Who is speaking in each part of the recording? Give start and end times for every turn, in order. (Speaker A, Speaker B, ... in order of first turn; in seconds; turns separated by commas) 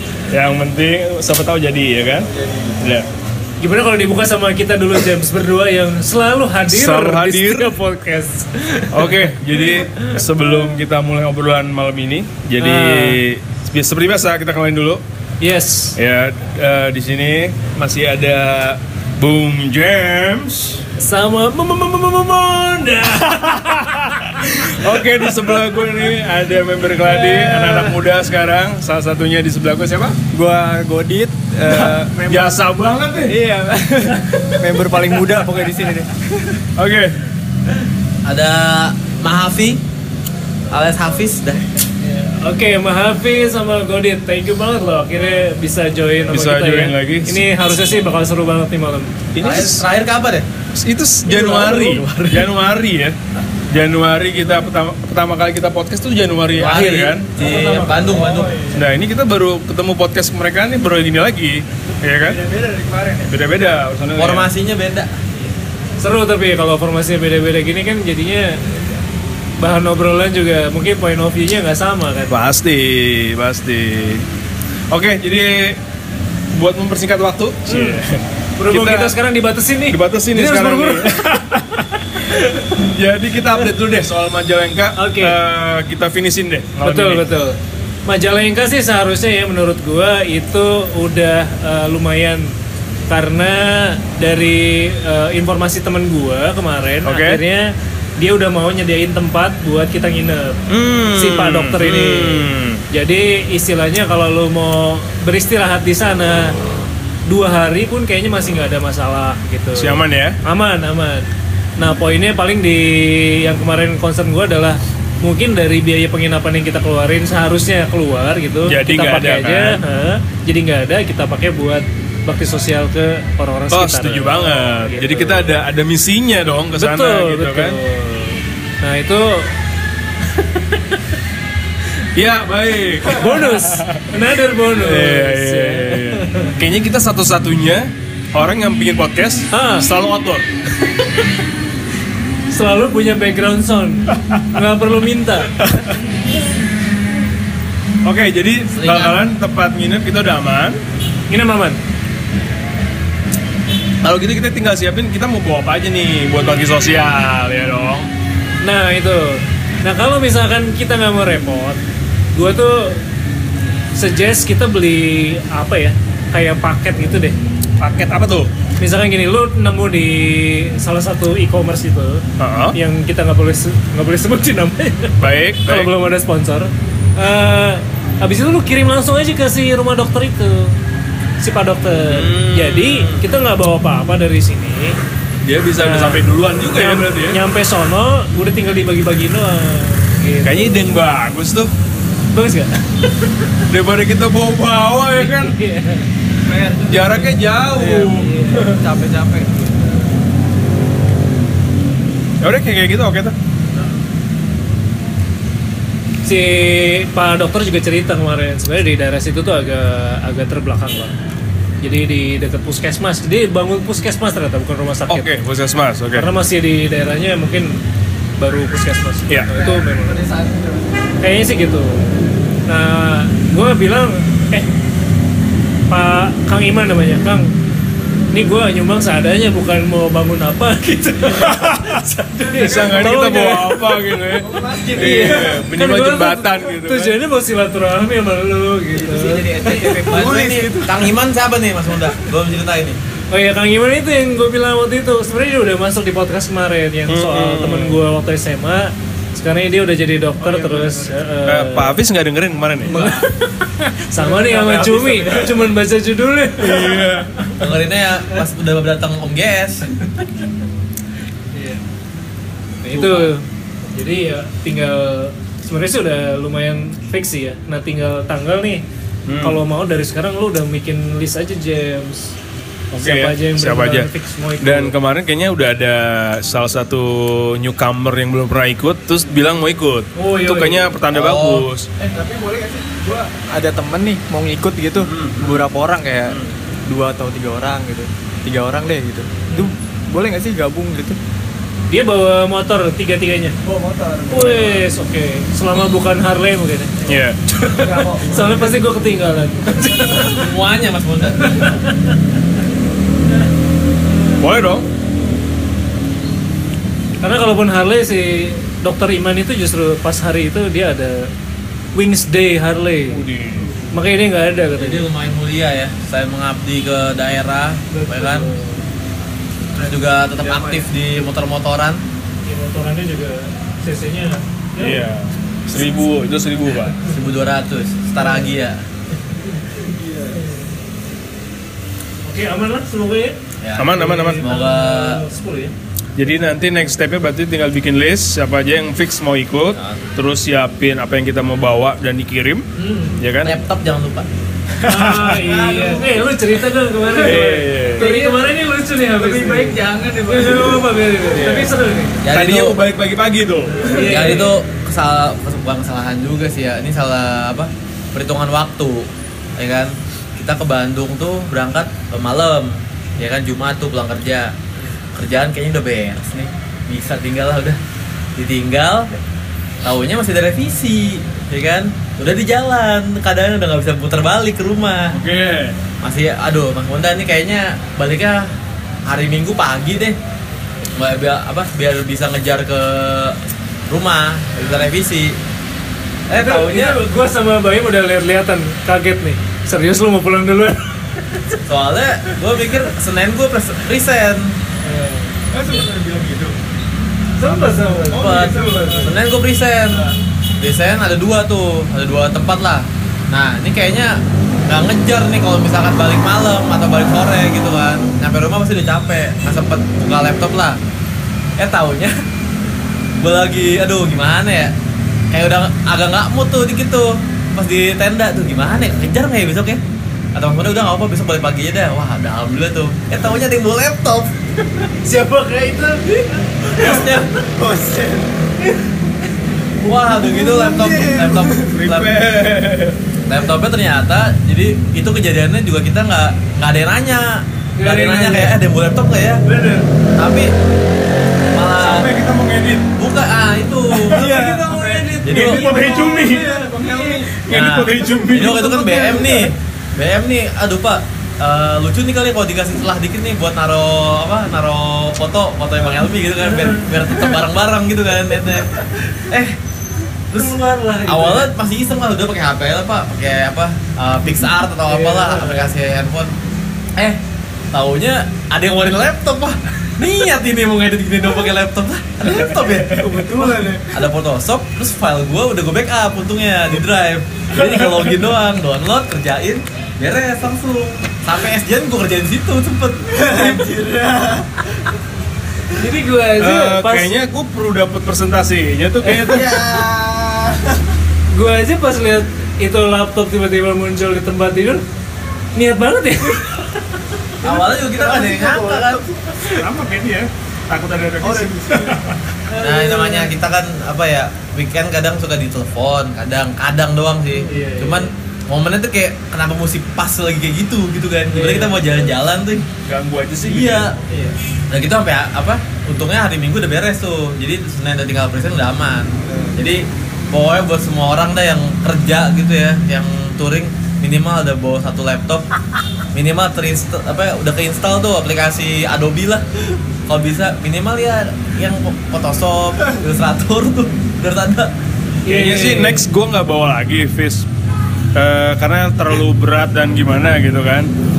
Speaker A: 0.3-3.1, Speaker B: 3.6-10.2, Speaker A: 6.7-7.8, Speaker A: 8.9-15.0, Speaker B: 12.6-13.2, Speaker B: 15.4-16.0, Speaker A: 16.0-20.8, Speaker B: 21.0-24.8, Speaker A: 24.7-30.2, Speaker C: 27.1-28.0, Speaker C: 30.3-32.6, Speaker A: 31.7-33.4, Speaker C: 33.3-36.6, Speaker A: 36.8-37.2, Speaker D: 38.2-39.8, Speaker D: 40.7-41.7, Speaker B: 42.0-49.2, Speaker A: 46.3-47.5, Speaker A: 49.3-49.9, Speaker D: 49.4-50.5, Speaker A: 50.8-53.2, Speaker A: 53.7-57.4, Speaker D: 56.5-58.5, Speaker B: 57.4-58.3, Speaker C: 58.1-58.8, Speaker A: 58.7-62.4, Speaker C: 62.2-63.3, Speaker A: 63.2-64.5, Speaker D: 64.2-65.1, Speaker B: 66.0-69.0, Speaker B: 69.6-72.4, Speaker A: 72.3-74.2, Speaker A: 74.9-75.8, Speaker A: 76.5-79.2, Speaker B: 77.7-78.0, Speaker B: 78.6-82.7, Speaker A: 79.9-81.2, Speaker A: 82.8-87.2, Speaker B: 85.0-85.4, Speaker B: 86.8-92.5, Speaker B: 93.1-100.6, Speaker A: 97.0-97.4, Speaker A: 100.7-102.8, Speaker B: 101.1-106.5, Speaker B: 107.3-125.5, Speaker A: 109.8-110.4, Speaker A: 118.7-119.8, Speaker A: 123.7-127.8, Speaker B: 126.8-129.5, Speaker B: 130.4-130.7, Speaker A: 132.2-134.0, Speaker B: 133.1-136.6, Speaker A: 134.8-140.5, Speaker B: 139.5-139.9, Speaker B: 142.5-145.5, Speaker A: 145.6-145.9, Speaker A: 148.0-150.8, Speaker D: 148.7-149.2, Speaker B: 151.3-151.8, Speaker A: 154.0-158.1, Speaker B: 158.6-161.8, Speaker B: 162.3-163.0, Speaker B: 164.0-167.4, Speaker A: 167.8-168.5, Speaker B: 168.8-180.8, Speaker A: 172.4-172.8, Speaker A: 175.2-175.9, Speaker B: 181.4-185.0, Speaker A: 182.1-183.2, Speaker A: 185.4-187.4, Speaker B: 185.8-191.0, Speaker A: 190.4-191.7, Speaker B: 192.3-192.8, Speaker A: 193.7-195.6, Speaker B: 195.2-196.1, Speaker C: 196.4-200.1, Speaker A: 196.9-198.8, Speaker B: 198.2-198.8, Speaker A: 202.4-203.3, Speaker B: 206.2-211.2, Speaker B: 211.8-215.3, Speaker A: 215.1-216.3, Speaker B: 216.1-217.8, Speaker B: 218.4-220.2, Speaker C: 219.5-221.2, Speaker B: 221.2-222.1, Speaker B: 222.7-224.7, Speaker B: 225.9-227.5, Speaker B: 228.3-233.8, Speaker A: 231.4-231.8, Speaker C: 232.5-233.3, Speaker A: 232.5-237.2, Speaker C: 234.4-235.7, Speaker B: 235.0-239.9, Speaker C: 238.9-241.1, Speaker D: 240.1-243.0, Speaker B: 243.3-252.0, Speaker A: 247.1-248.0, Speaker C: 250.4-251.1, Speaker A: 251.4-253.1, Speaker B: 252.9-253.2, Speaker C: 252.9-253.3, Speaker B: 253.8-257.6, Speaker C: 254.2-255.7, Speaker A: 256.6-257.3, Speaker D: 257.6-259.9, Speaker B: 261.5-261.8, Speaker B: 262.8-268.8, Speaker A: 262.9-263.3, Speaker A: 269.3-269.6, Speaker B: 269.4-272.4, Speaker A: 272.9-274.1, Speaker B: 273.0-274.9, Speaker A: 274.6-281.9, Speaker B: 280.2-280.9, Speaker D: 281.1-281.6, Speaker C: 282.0-291.2, Speaker A: 285.0-285.6, Speaker A: 286.2-286.5, Speaker B: 291.9-293.6, Speaker C: 293.6-294.8, Speaker B: 294.3-297.0, Speaker A: 297.0-297.4, Speaker B: 297.6-300.5, Speaker C: 297.7-298.8, Speaker D: 300.2-301.7, Speaker B: 301.4-302.2, Speaker A: 304.4-304.9, Speaker B: 307.2-311.3, Speaker B: 311.9-313.2, Speaker A: 313.1-313.8, Speaker B: 313.9-315.1, Speaker D: 314.8-318.5, Speaker B: 317.9-318.8, Speaker B: 319.8-320.9, Speaker D: 319.8-322.0, Speaker B: 322.4-325.1, Speaker A: 324.8-327.1, Speaker D: 327.1-328.8, Speaker B: 328.2-328.5, Speaker B: 329.2-330.7, Speaker C: 329.9-330.4, Speaker B: 332.2-333.4, Speaker D: 333.6-335.2, Speaker A: 333.8-334.5, Speaker B: 333.9-335.8, Speaker A: 336.2-342.6, Speaker D: 339.8-340.1, Speaker B: 342.8-343.2, Speaker A: 343.2-343.5, Speaker D: 343.4-344.3, Speaker B: 344.9-352.2, Speaker A: 344.9-345.4, Speaker C: 345.4-346.2, Speaker A: 347.1-348.1, Speaker C: 348.0-348.4, Speaker C: 349.2-351.2, Speaker A: 351.3-351.7, Speaker D: 352.2-352.8, Speaker A: 352.3-354.2, Speaker B: 353.9-354.5, Speaker D: 353.9-364.5, Speaker D: 365.1-367.8, Speaker D: 368.4-369.1, Speaker D: 369.8-375.1, Speaker A: 375.1-375.8, Speaker D: 376.0-378.5, Speaker D: 379.1-380.2, Speaker D: 381.0-383.4, Speaker D: 383.9-385.4, Speaker D: 386.3-387.0, Speaker B: 386.3-391.4, Speaker D: 391.7-394.6, Speaker B: 394.8-395.8, Speaker C: 395.5-396.6, Speaker B: 397.4-399.1, Speaker C: 397.5-399.2, Speaker D: 398.1-410.8, Speaker D: 411.6-412.1, Speaker D: 413.2-414.7, Speaker D: 415.3-419.8, Speaker D: 420.4-424.3, Speaker B: 425.1-426.8, Speaker D: 426.8-427.3, Speaker C: 427.6-428.4, Speaker D: 429.8-432.1, Speaker C: 430.1-431.7, Speaker A: 431.6-433.0, Speaker D: 433.3-439.4, Speaker B: 437.8-438.6, Speaker A: 439.5-439.9, Speaker D: 440.2-440.5, Speaker D: 441.5-442.1, Speaker A: 441.8-442.9, Speaker D: 442.9-444.5, Speaker C: 444.1-447.3, Speaker A: 444.2-449.4, Speaker D: 445.2-445.7, Speaker D: 447.5-458.7, Speaker B: 456.4-457.3, Speaker D: 459.3-459.6, Speaker D: 460.3-466.3, Speaker B: 460.3-461.5, Speaker B: 464.9-465.7, Speaker D: 467.7-473.2, Speaker C: 472.4-474.0, Speaker D: 473.9-483.7, Speaker C: 483.1-484.6, Speaker B: 485.7-487.1, Speaker A: 486.4-489.6, Speaker C: 489.1-490.8, Speaker B: 491.3-494.8, Speaker B: 495.6-496.8, Speaker D: 497.4-499.1, Speaker C: 497.4-499.3, Speaker A: 499.5-502.2, Speaker C: 501.2-502.1, Speaker B: 502.5-503.3, Speaker D: 502.6-512.6, Speaker B: 507.4-508.1, Speaker B: 511.3-512.0, Speaker A: 512.9-513.9, Speaker D: 513.4-514.0, Speaker C: 514.1-514.4, Speaker D: 514.7-525.5, Speaker C: 519.3-519.6, Speaker D: 526.1-534.7, Speaker B: 535.2-536.0, Speaker A: 535.3-537.5, Speaker A: 538.1-540.9